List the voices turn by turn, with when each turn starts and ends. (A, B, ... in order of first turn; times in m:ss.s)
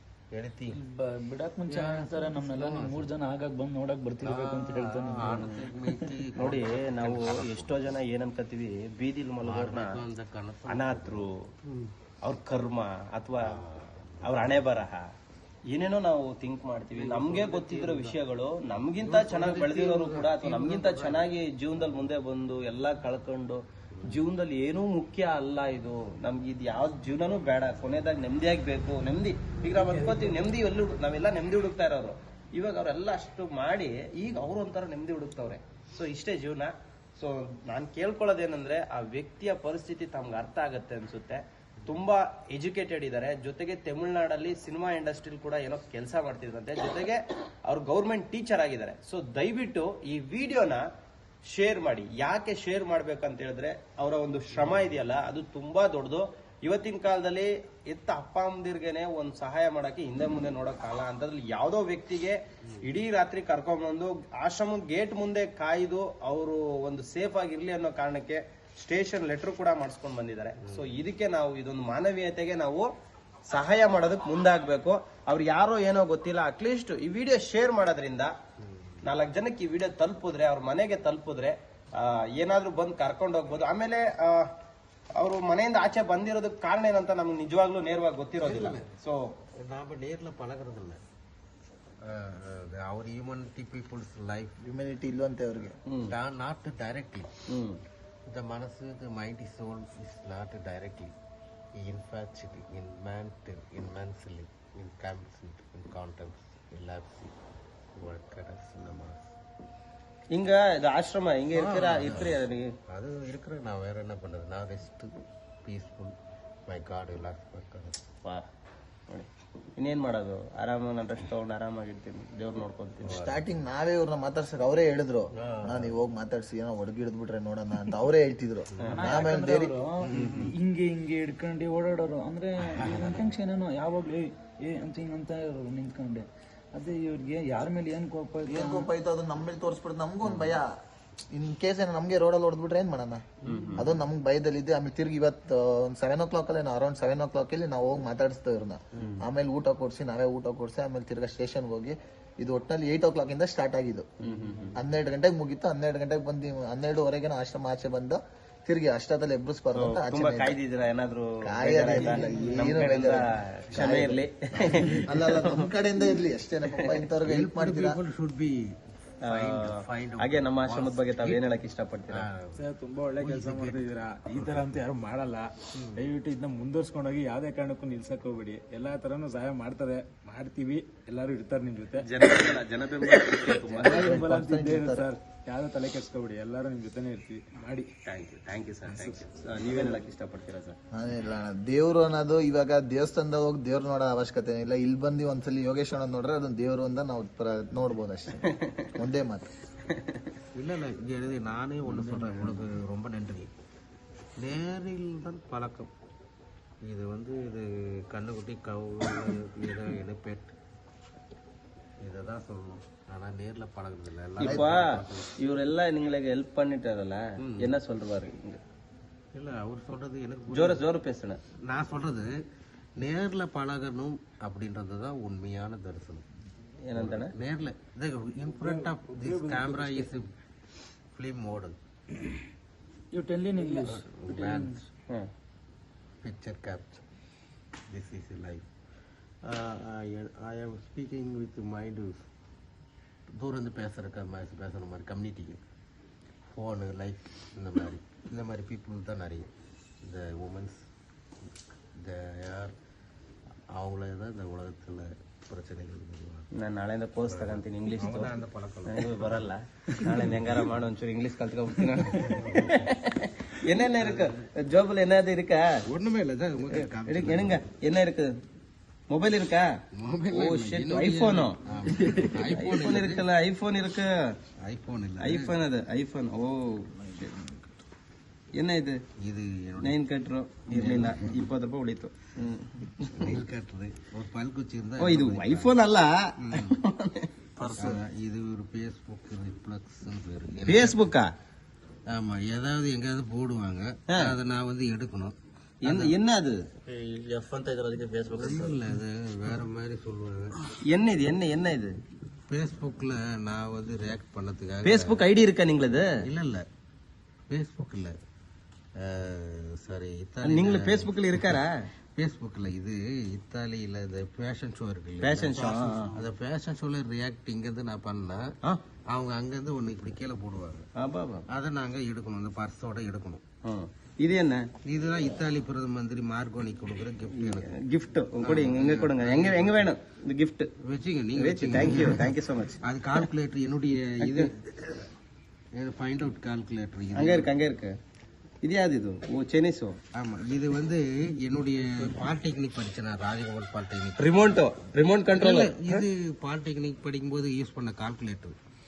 0:00.3-0:00.8 A
0:00.7-0:06.1 B
0:01.7-0:03.1 A
0:04.2-0:07.8 A
0:05.3-0:05.6 C
0:06.4-0:10.0 C
0:09.4-0:11.9 A
0:10.7-0:11.4 C
0:12.2-0:13.6 C
0:13.5-0:14.8 A
0:14.2-0:15.0 C
0:15.7-0:50.8 C
0:16.9-0:18.2 A
0:19.0-0:21.3 A
0:29.7-0:30.4 D
0:51.4-1:12.9 C
1:10.6-1:11.0 A
1:13.5-1:18.3 C
1:18.6-1:19.0 A
1:19.0-1:24.5 C
1:25.2-1:29.3 C
1:28.4-1:28.8 A
1:29.6-1:31.0 A
1:32.0-1:34.6 A
1:34.6-1:35.8 E
1:35.8-1:36.1 C
1:36.1-1:37.3 A
1:37.5-1:37.8 C
1:38.3-1:41.1 A
1:41.8-1:47.3 A
1:48.0-1:49.3 A
1:50.3-1:52.7 C
1:51.5-1:55.1 A
1:55.6-1:56.1 A
1:56.7-1:58.0 A
1:59.1-2:03.2 C
2:03.0-2:03.4 A
2:03.1-2:09.7 E
2:05.4-2:05.9 A
2:08.8-2:09.3 C
2:08.9-2:18.9 B
2:10.0-2:10.5 A
2:12.8-2:13.3 A
2:18.4-2:20.6 E
2:21.3-2:34.1 E
2:23.4-2:23.9 A
2:23.4-2:23.9 C
2:34.2-2:34.8 C
2:34.8-2:40.6 E
2:39.7-2:45.7 C
2:41.4-2:44.2 E
2:41.9-2:42.8 A
2:44.5-2:45.2 A
2:44.8-2:48.0 E
2:46.7-2:47.0 C
2:47.2-2:48.6 A
2:49.2-2:51.4 A
2:49.2-2:52.3 C
2:52.1-2:52.6 A
2:52.6-3:02.1 D
2:53.2-2:54.6 A
2:55.7-2:56.0 A
3:02.0-3:04.1 C
3:03.3-3:07.9 D
3:03.8-3:05.1 E
3:08.0-3:10.8 C
3:09.1-3:10.0 D
3:10.9-3:19.5 E
3:18.4-3:18.9 C
3:19.9-3:20.2 C
3:20.5-3:23.5 A
3:21.9-3:22.6 B
3:24.4-3:25.9 A
3:26.8-3:30.5 A
3:32.0-3:35.3 A
3:34.4-3:38.6 C
3:34.4-3:34.7 E
3:37.4-3:37.7 A
3:39.3-3:40.8 A
3:40.5-3:41.4 C
3:41.6-3:42.3 A
3:43.0-3:46.2 A
3:46.8-3:47.3 C
3:46.9-3:50.3 A
3:48.5-3:50.1 D
3:51.1-3:51.8 A
3:53.1-3:54.8 B
3:53.6-3:54.9 A
3:56.2-3:57.0 A
3:57.9-3:58.6 A
3:59.4-4:02.2 A
4:03.4-4:05.6 A
4:06.5-4:09.5 A
4:10.0-4:10.8 A
4:12.0-4:12.7 A
4:13.7-4:16.5 A
4:16.5-4:18.3 C
4:17.3-4:19.4 A
4:18.8-4:25.7 C
4:22.2-4:22.8 A
4:24.0-4:24.4 A
4:25.9-4:27.6 A
4:26.7-4:28.3 C
4:29.1-4:29.7 C
4:29.9-4:33.2 A
4:30.3-4:34.1 C
4:34.6-4:35.6 A
4:35.2-4:37.3 C
4:38.6-4:39.0 C
4:39.2-4:40.0 A
4:39.8-4:43.4 C
4:40.7-4:41.5 A
4:43.1-4:45.7 A
4:45.0-4:47.3 C
4:46.4-4:46.8 A
4:47.6-4:48.0 E
4:47.6-4:51.0 A
4:50.6-4:51.3 C
4:52.1-4:56.1 A
4:54.1-4:54.3 C
4:55.8-4:58.8 C
4:58.3-5:00.6 A
5:00.8-5:01.9 C
5:02.5-5:05.2 A
5:04.8-5:06.1 C
5:06.2-5:06.6 A
5:07.5-5:08.1 A
5:09.0-5:11.6 A
5:10.4-5:11.9 C
5:12.2-5:18.4 A
5:15.2-5:16.1 C
5:19.1-5:20.9 A
5:21.0-5:21.4 C
5:21.5-5:23.4 A
5:23.6-5:24.6 C
5:24.8-5:27.8 A
5:27.3-5:30.7 C
5:28.4-5:29.9 A
5:30.8-5:32.3 A
5:31.3-5:33.3 C
5:32.8-5:35.0 A
5:34.2-5:34.5 C
5:35.8-5:37.5 A
5:37.1-5:37.9 C
5:38.6-5:40.0 C
5:40.2-5:44.4 A
5:44.2-5:46.0 C
5:45.3-5:48.5 A